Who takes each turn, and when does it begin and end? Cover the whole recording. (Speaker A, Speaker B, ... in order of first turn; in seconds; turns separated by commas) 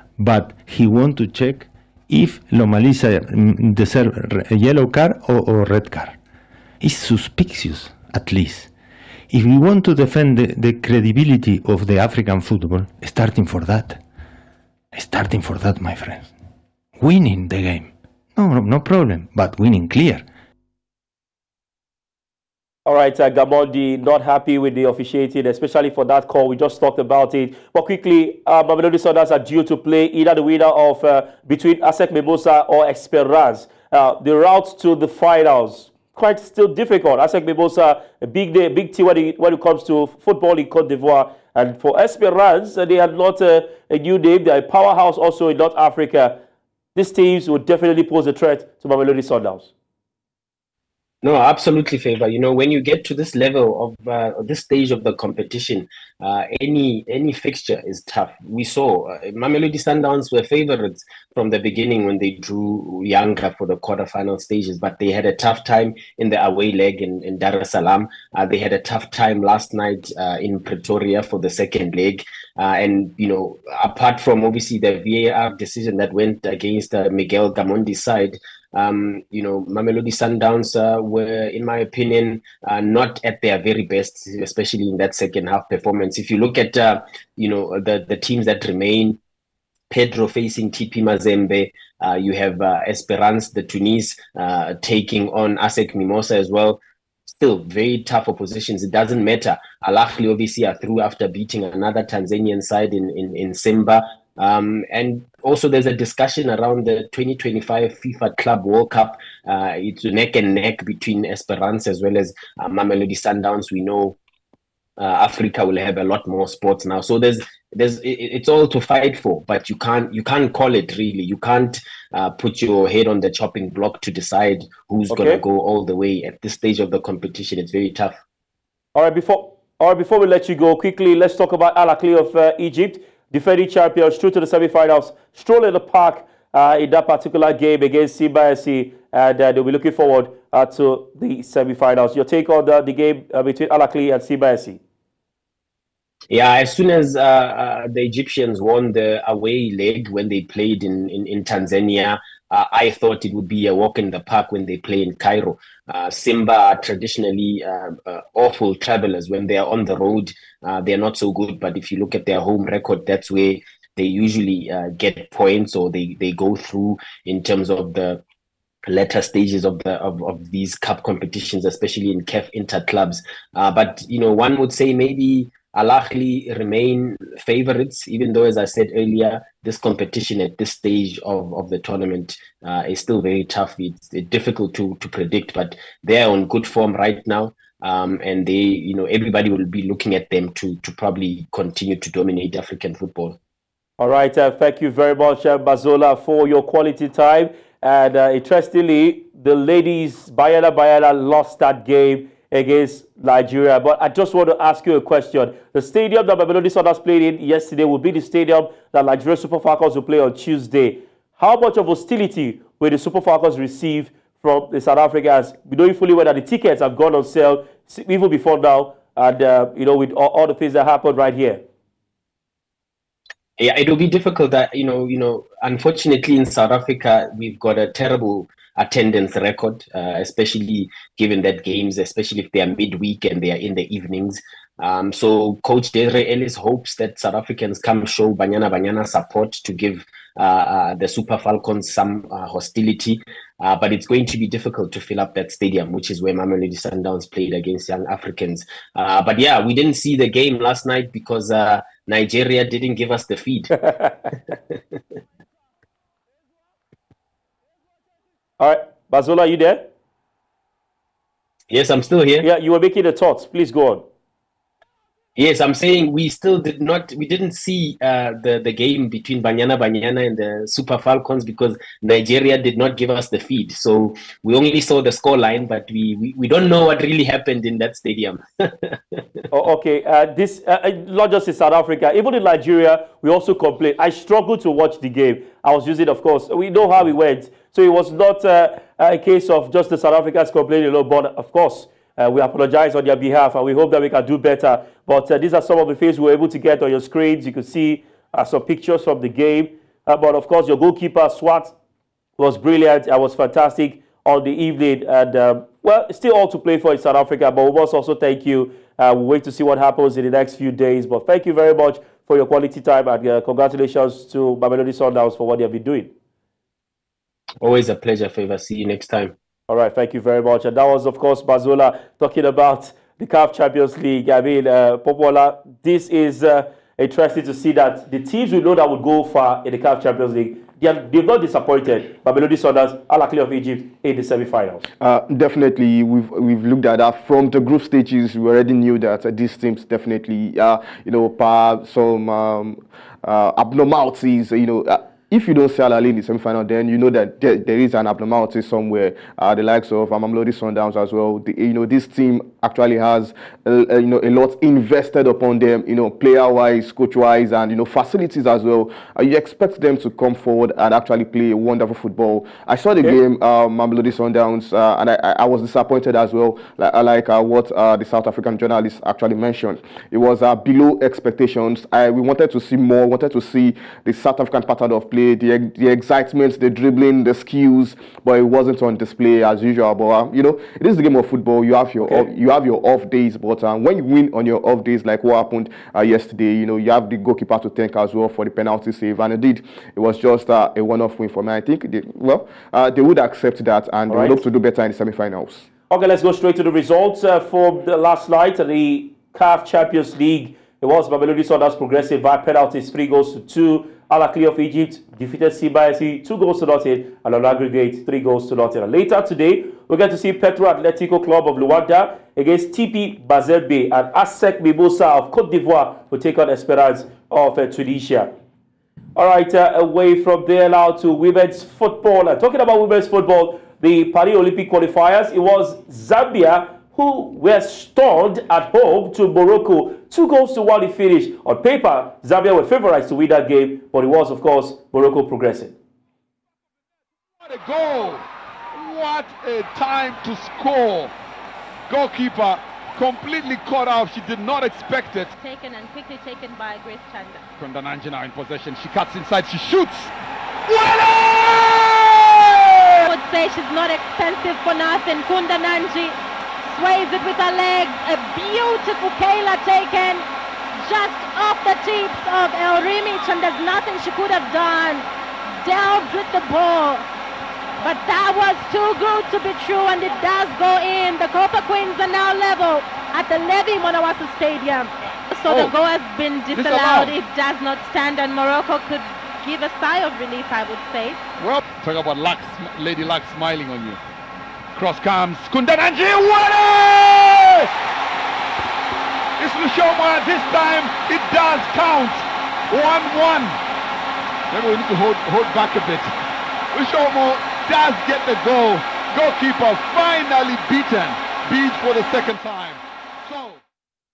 Speaker A: 0.2-6.2, Speaker A: 6.8-8.7, Speaker A: 9.3-14.0, Speaker A: 14.9-16.3, Speaker A: 17.0-20.2, Speaker B: 22.9-46.4, Speaker B: 47.0-49.7, Speaker C: 51.2-89.2, Speaker C: 89.9-114.2, Speaker C: 115.0-128.2, Speaker B: 125.1-125.4, Speaker B: 128.9-144.8, Speaker C: 146.3-168.2, Speaker C: 168.8-193.4, Speaker B: 194.0-221.6, Speaker C: 223.6-253.8, Speaker B: 258.6-259.9, Speaker C: 261.7-262.5, Speaker B: 262.4-264.0, Speaker C: 265.4-279.2, Speaker B: 279.5-301.7, Speaker B: 302.4-316.1, Speaker C: 317.6-319.3, Speaker B: 319.7-334.8, Speaker D: 335.0-395.7, Speaker B: 394.1-394.4, Speaker B: 395.9-418.3, Speaker B: 419.2-435.7, Speaker E: 437.4-441.1, Speaker E: 441.9-445.3, Speaker F: 445.4-447.4, Speaker E: 447.6-450.1, Speaker E: 450.7-452.9, Speaker F: 453.1-456.2, Speaker F: 456.7-460.2, Speaker F: 460.8-465.1, Speaker F: 465.6-467.1, Speaker F: 467.8-481.2, Speaker E: 475.5-475.7, Speaker E: 476.5-477.1, Speaker E: 481.4-484.0, Speaker E: 484.7-487.7, Speaker E: 489.4-493.6, Speaker E: 494.5-496.1, Speaker E: 496.7-503.6